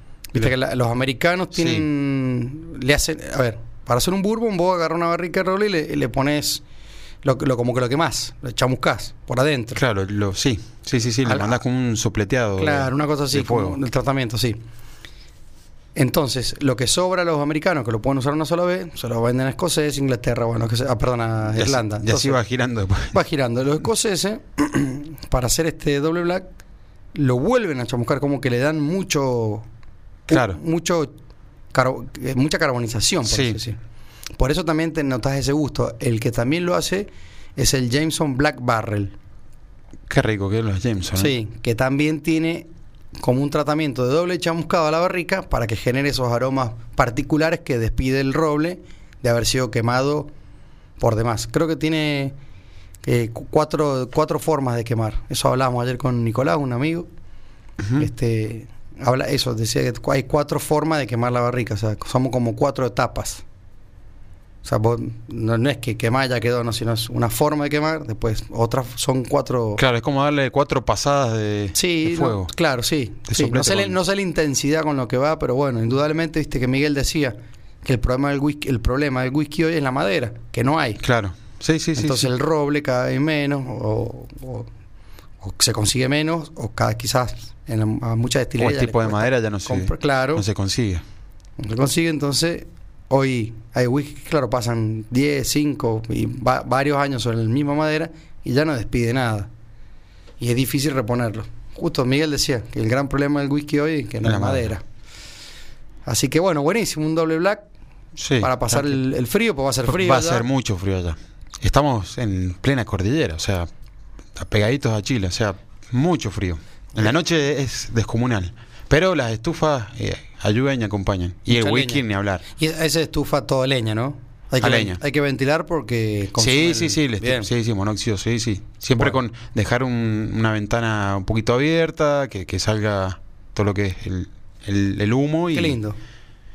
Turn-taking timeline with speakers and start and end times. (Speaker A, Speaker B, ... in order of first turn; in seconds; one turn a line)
Speaker A: 0.3-6.6
Speaker B: 1.5-1.9
Speaker A: 7.2-9.8
Speaker B: 9.8-13.8
Speaker A: 11.2-11.6
Speaker A: 12.6-14.6
Speaker A: 15.9-22.4
Speaker B: 21.5-23.2
Speaker A: 23.1-26.5
Speaker A: 27.1-29.7
Speaker B: 30.3-30.6
Speaker A: 30.3-31.1
Speaker A: 31.7-33.8
Speaker B: 33.3-33.6
Speaker A: 34.4-39.1
Speaker B: 40.1-41.3
Speaker A: 41.2-42.7
Speaker A: 43.2-50.3
Speaker A: 51.0-52.4
Speaker A: 53.0-57.1
Speaker B: 57.8-58.1
Speaker A: 58.0-63.4
Speaker A: 64.7-69.8
Speaker B: 69.8-72.5
Speaker A: 71.8-81.0
Speaker B: 73.3-74.0
Speaker B: 81.0-82.3
Speaker A: 82.0-84.7
Speaker A: 85.4-90.5
Speaker B: 88.6-91.0
Speaker A: 91.6-99.5
Speaker A: 100.4-104.8
Speaker B: 104.2-104.7
Speaker A: 106.1-107.7
Speaker B: 108.2-109.0
Speaker A: 108.4-110.5
Speaker B: 109.8-113.7
Speaker B: 114.3-122.4
Speaker A: 121.5-127.5
Speaker B: 124.6-125.0
Speaker B: 126.4-135.8
Speaker A: 135.5-136.0